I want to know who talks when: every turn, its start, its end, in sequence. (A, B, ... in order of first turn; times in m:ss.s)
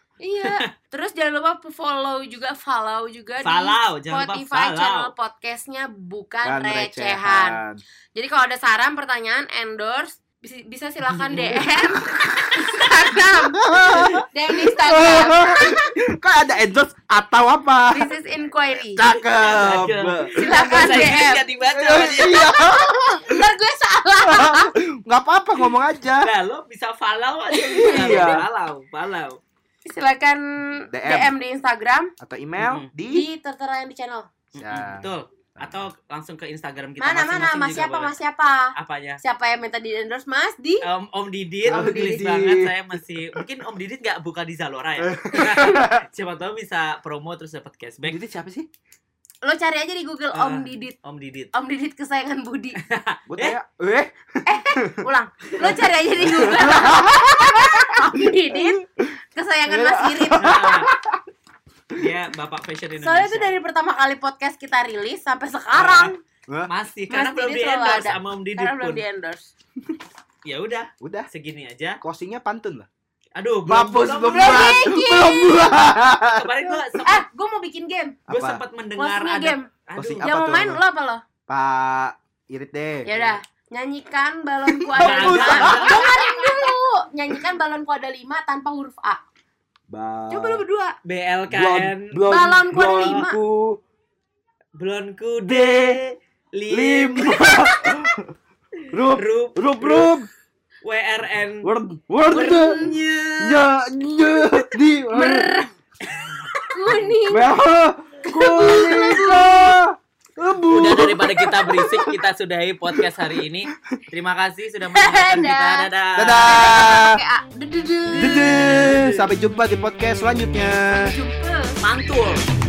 0:00.2-0:07.6 A
0:03.4-0:05.1 B
0:06.4-0:07.8 C
0:08.1-0:15.9 A
0:11.1-0:11.6 B
0:13.1-0:18.1 C
0:13.9-0:14.2 B
0:17.9-0:19.0 A
0:18.7-0:23.4 C
0:19.1-0:22.5 B
0:20.3-0:21.4 A
0:22.0-0:24.7 A
0:24.2-0:26.3 C
0:26.2-0:29.4 B
0:27.5-0:28.4 A
0:27.8-0:28.4 C
0:29.8-0:32.1 A
0:30.9-0:31.3 C
0:32.2-0:33.2 C
0:32.6-0:32.9 B
0:33.1-0:34.3 A
0:34.5-0:38.1 B
0:34.6-0:35.9 C
0:37.0-0:40.9 A
0:38.7-0:39.2 B
0:40.8-0:48.2 B
0:41.6-0:43.4 C
0:41.7-0:42.4 A
0:45.0-0:46.0 C
0:45.3-0:45.8 A
0:48.0-0:48.7 C
0:49.4-0:50.9 A
0:50.3-0:51.5 B
0:51.5-0:52.8 A
0:52.8-0:53.6 B
0:53.3-0:55.0 C
0:54.4-0:58.8 A
0:55.6-0:59.1 C
0:59.3-1:00.8 A
0:59.7-1:01.2 C
1:00.4-1:00.9 B
1:02.0-1:03.6 B
1:03.0-1:06.2 A
1:05.7-1:06.1 B
1:06.7-1:09.0 B
1:07.1-1:09.5 A
1:10.4-1:12.0 B
1:11.0-1:11.3 C
1:12.0-1:12.9 C
1:13.4-1:14.8 B
1:13.6-1:16.8 C
1:14.3-1:15.8 A
1:16.4-1:17.2 B
1:17.0-1:18.2 A
1:18.3-1:18.6 C
1:18.3-1:20.3 B
1:19.0-1:19.7 A
1:20.0-1:20.8 C
1:20.2-1:21.2 A
1:21.5-1:23.1 C
1:23.0-1:29.2 A
1:23.1-1:23.4 B
1:24.7-1:26.7 C
1:25.0-1:26.0 B
1:29.9-1:30.6 C
1:30.3-1:31.0 A
1:31.0-1:33.2 B
1:31.5-1:33.8 C
1:32.3-1:33.4 A
1:34.8-1:37.5 B
1:35.4-1:36.0 C
1:36.7-1:38.3 C
1:37.4-1:37.8 A
1:38.9-1:40.3 C
1:39.0-1:40.2 B
1:40.8-1:41.7 B
1:41.6-1:45.5 C
1:42.3-1:43.0 A
1:42.3-1:43.7 B
1:45.1-1:45.7 A
1:46.1-1:47.1 B
1:46.7-1:47.5 A
1:47.3-1:52.2 C
1:48.2-1:49.7 A
1:50.7-1:56.8 B
1:52.9-1:53.2 C
1:54.9-1:58.8 A
1:56.2-1:57.2 C
1:58.1-1:59.3 B
1:58.2-2:01.1 C
2:00.9-2:01.8 A
2:01.8-2:02.4 B